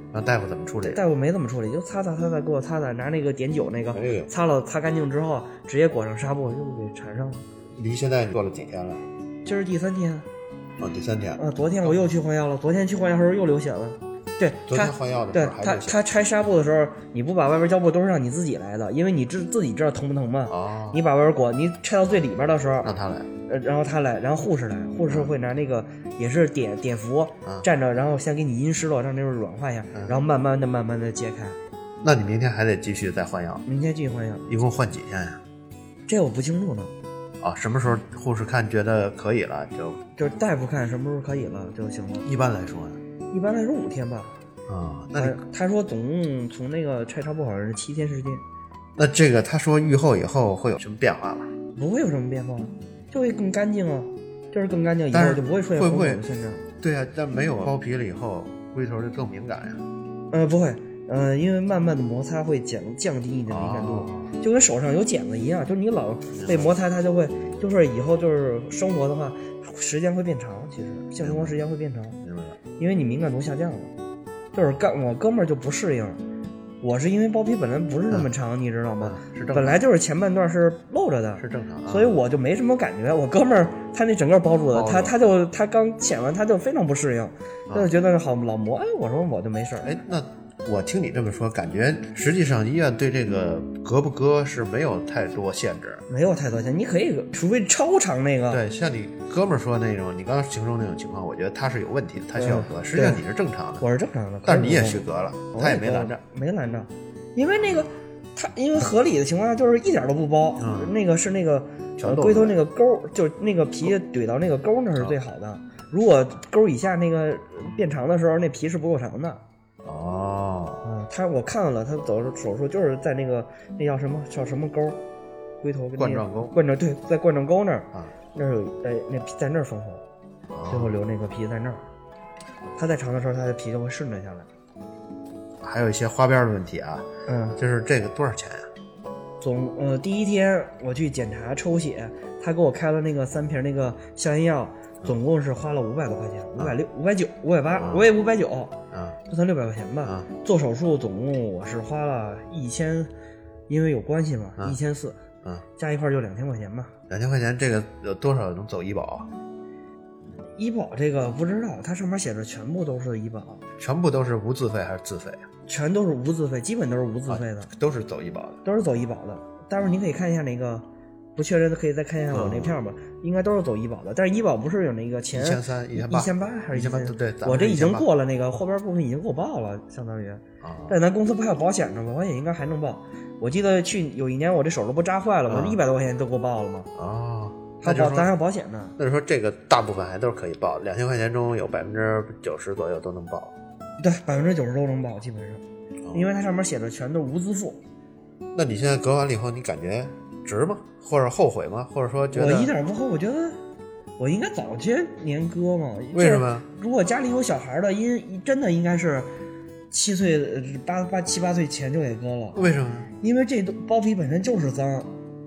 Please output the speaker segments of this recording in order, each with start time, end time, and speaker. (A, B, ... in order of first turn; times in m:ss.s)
0:00.1-0:01.0 A
0:00.8-0:07.4 B
0:03.9-0:04.3 A
0:07.8-0:09.0 A
0:09.4-0:10.2 B
0:10.8-0:12.1 A
0:11.4-0:22.9 B
0:14.7-0:16.0 A
0:20.5-0:21.0 A
0:22.8-0:23.3 A
0:23.5-0:31.6 B
0:25.1-0:25.3 A
0:32.0-0:33.6 A
0:33.6-0:34.4 B
0:34.5-0:35.4 A
0:36.1-0:36.9 B
0:37.4-0:40.0 A
0:40.2-0:42.2 B
0:42.2-0:43.0 A
0:43.3-0:44.4 B
0:44.7-0:45.4 A
0:45.2-0:48.4 B
0:49.0-0:51.5 A
0:51.7-0:56.6 B
0:55.1-0:56.2 A
0:56.8-0:59.8 A
1:00.3-1:12.2 B
1:03.5-1:04.3 A
1:06.3-1:06.8 A
1:11.2-1:11.6 A
1:12.2-1:12.6 A
1:12.8-1:13.9 B
1:14.5-1:16.2 B
1:16.8-1:29.9 B
1:19.0-1:19.8 A
1:21.4-1:22.2 A
1:24.7-1:25.2 A
1:29.8-1:36.0 A
1:36.1-1:38.6 B
1:38.5-1:43.8 A
1:42.3-1:43.2 B
1:43.8-1:45.0 B
1:44.4-1:46.2 A
1:45.5-1:59.4 B
1:50.6-1:50.9 A
1:52.0-1:52.6 A
1:59.8-2:00.8 A
2:00.8-2:05.0 B
2:05.6-2:10.0 B
2:06.0-2:06.5 A
2:10.5-2:11.0 A
2:10.7-2:11.8 B
2:12.8-2:14.5 B
2:15.6-2:17.0 A
2:17.3-2:17.6 B
2:17.6-2:18.6 A
2:19.4-2:28.8 B
2:27.8-2:28.1 A
2:28.9-2:29.2 A
2:29.3-2:33.1 B
2:33.7-2:35.2 B
2:35.8-2:36.9 B
2:37.1-2:39.3 A
2:40.6-2:43.6 B
2:43.8-2:45.4 A
2:45.7-2:47.7 B
2:47.3-2:48.6 A
2:48.6-2:50.8 B
2:51.4-3:06.9 B
2:52.3-2:52.8 A
2:55.3-2:58.1 A
3:00.6-3:01.0 A
3:05.5-3:05.8 A
3:07.0-3:08.3 A
3:07.8-3:08.9 B
3:09.0-3:13.5 A
3:14.0-3:15.6 B
3:16.0-3:16.3 A
3:16.1-3:17.8 B
3:18.5-3:22.7 A
3:22.3-3:23.6 B
3:24.2-3:29.3 B
3:26.1-3:26.6 A
3:29.9-3:32.6 B
3:32.5-3:33.1 A
3:33.2-3:35.1 B